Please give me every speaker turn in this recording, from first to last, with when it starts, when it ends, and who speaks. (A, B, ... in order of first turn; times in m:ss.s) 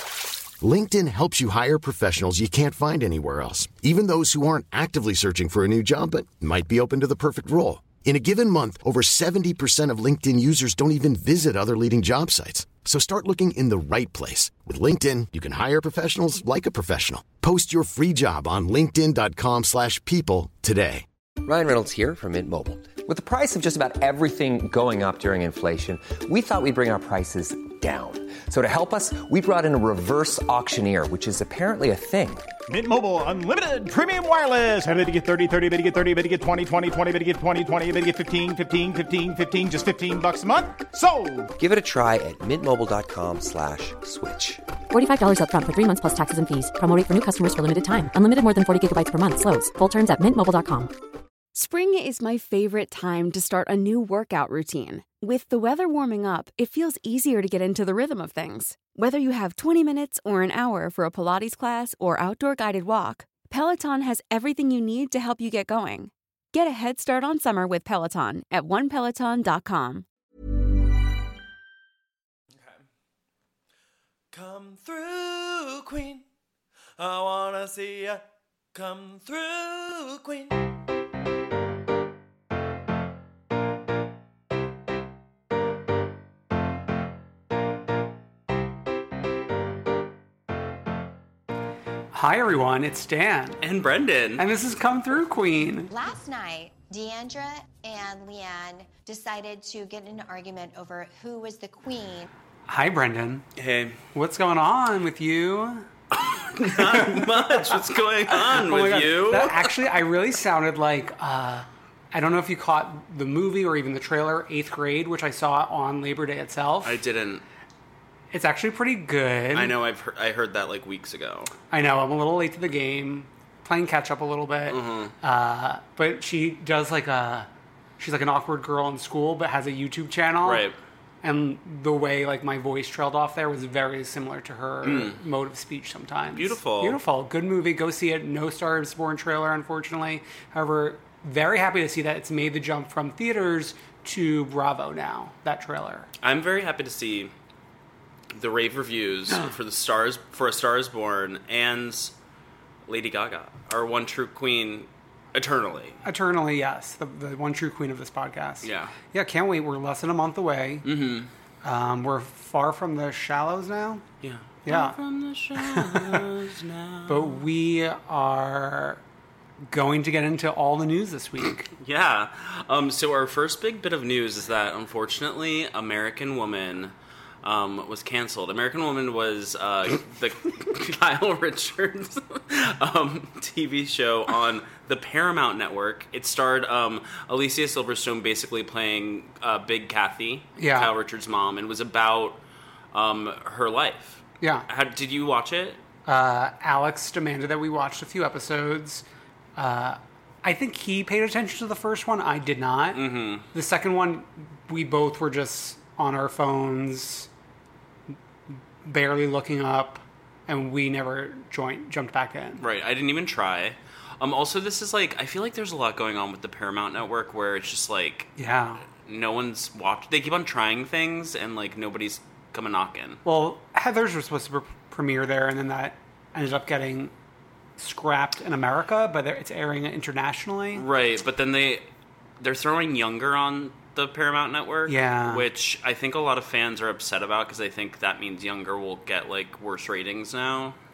0:00.6-0:21.0 A
0:21.4-0:32.5 B
0:32.7-0:41.5 C
0:41.6-0:44.6 B
0:44.9-0:50.9 D
0:51.6-1:10.1 E
1:14.3-1:16.2 F
1:17.0-1:18.2 F
1:18.7-1:20.6 F
1:32.1-1:33.6 G
1:33.6-1:34.4 H
1:34.4-1:35.9 G
1:35.9-1:42.3 I
1:42.7-1:43.4 G
1:43.6-1:44.0 H
1:44.1-1:45.9 G
1:46.1-1:49.7 H
1:46.7-1:47.7 G
1:48.3-1:57.0 G
1:56.8-1:57.4 H
1:58.3-1:59.7 G
1:59.5-2:01.5 H
2:01.7-2:07.5 G
2:04.7-2:05.1 H
2:08.0-2:10.6 G
2:10.4-2:10.8 H
2:11.2-2:26.1 G
2:14.8-2:15.2 H
2:16.4-2:17.0 H
2:26.2-2:27.3 H
2:28.3-2:32.1 H
2:32.9-2:36.0 H
2:36.0-2:40.9 G
2:38.6-2:39.0 H
2:40.8-2:41.3 H
2:41.6-2:44.0 G
2:44.2-2:47.4 H
2:44.7-2:45.0 G
2:45.6-2:46.2 G
2:47.1-2:49.0 G
2:49.7-2:51.7 G
2:51.8-3:12.4 H
3:10.6-3:10.9 G
3:12.9-3:15.8 H
3:16.1-3:19.0 G
3:19.6-3:27.3 G
3:22.9-3:23.5 H
3:28.8-3:32.6 G
3:32.6-3:38.3 H
3:38.4-3:38.8 G
3:38.9-3:43.2 H
3:43.2-3:47.1 G
3:47.8-3:50.8 G
3:50.8-3:51.8 H
3:52.4-4:00.8 H
3:54.9-3:55.5 G